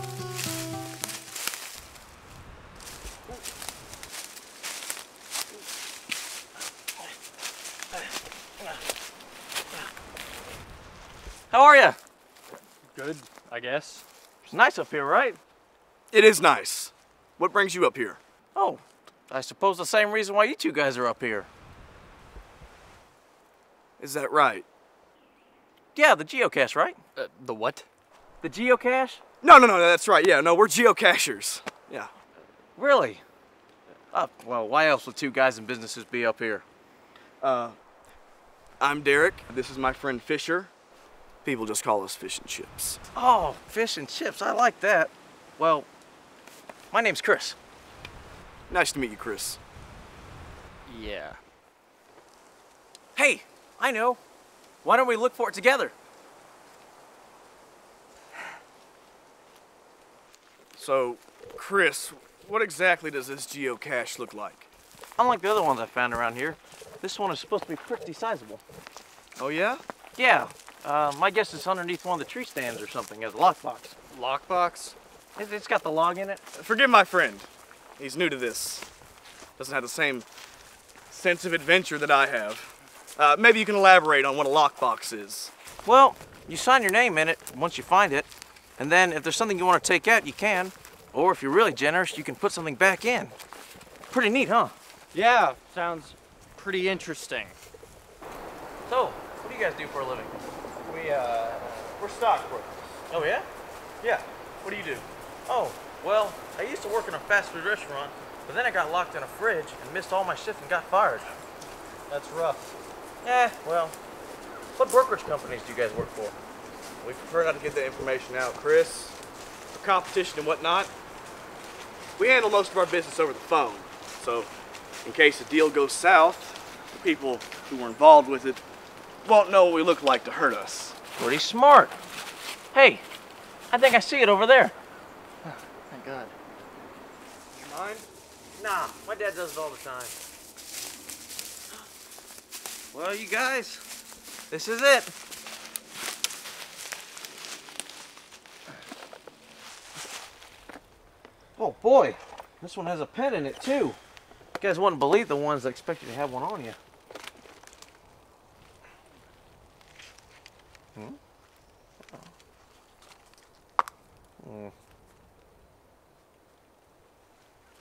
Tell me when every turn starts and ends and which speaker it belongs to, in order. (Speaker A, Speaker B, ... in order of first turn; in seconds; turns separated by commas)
Speaker A: 11.5-12.0, Speaker B: 12.9-14.0, Speaker A: 14.5-15.4, Speaker C: 16.1-18.2, Speaker A: 18.6-21.5, Speaker C: 24.0-24.7, Speaker A: 25.9-27.0, Speaker B: 27.2-27.9, Speaker A: 28.4-29.2, Speaker C: 29.4-32.1, Speaker A: 32.8-33.2, Speaker A: 34.1-36.6, Speaker C: 37.4-37.8, Speaker C: 38.8-40.7, Speaker C: 41.4-43.0, Speaker A: 43.1-45.9, Speaker A: 46.9-47.6, Speaker C: 48.7-49.6, Speaker B: 50.9-51.4, Speaker A: 53.1-54.2, Speaker A: 54.8-55.9, Speaker C: 60.8-64.7, Speaker A: 65.2-68.6, Speaker C: 69.4-69.8, Speaker A: 70.2-74.0, Speaker B: 74.1-75.0, Speaker A: 75.4-76.4, Speaker C: 76.5-78.9, Speaker C: 79.6-80.3, Speaker C: 81.1-85.5, Speaker A: 85.9-93.4, Speaker A: 94.1-94.8, Speaker B: 95.1-97.6, Speaker A: 98.9-100.4, Speaker B: 100.8-102.0, Speaker C: 102.0-102.9, Speaker A: 103.1-103.5, Speaker C: 104.6-105.1, Speaker A: 105.5-111.3, Speaker B: 112.1-112.7, Speaker A: 113.2-114.0, Speaker A: 114.8-116.4, Speaker C: 117.0-119.2, Speaker C: 119.7-120.9, Speaker C: 122.2-124.5, Speaker C: 125.0-128.6, Speaker C: 129.2-131.0, Speaker A: 131.2-132.0, Speaker A: 132.7-133.0, Speaker A: 133.7-134.7, Speaker B: 135.4-136.3, Speaker C: 137.5-138.0, Speaker A: 138.6-140.2, Speaker A: 142.9-143.8, Speaker A: 144.5-145.1, Speaker A: 151.6-154.0, Speaker A: 154.6-156.8, Speaker A: 164.4-164.7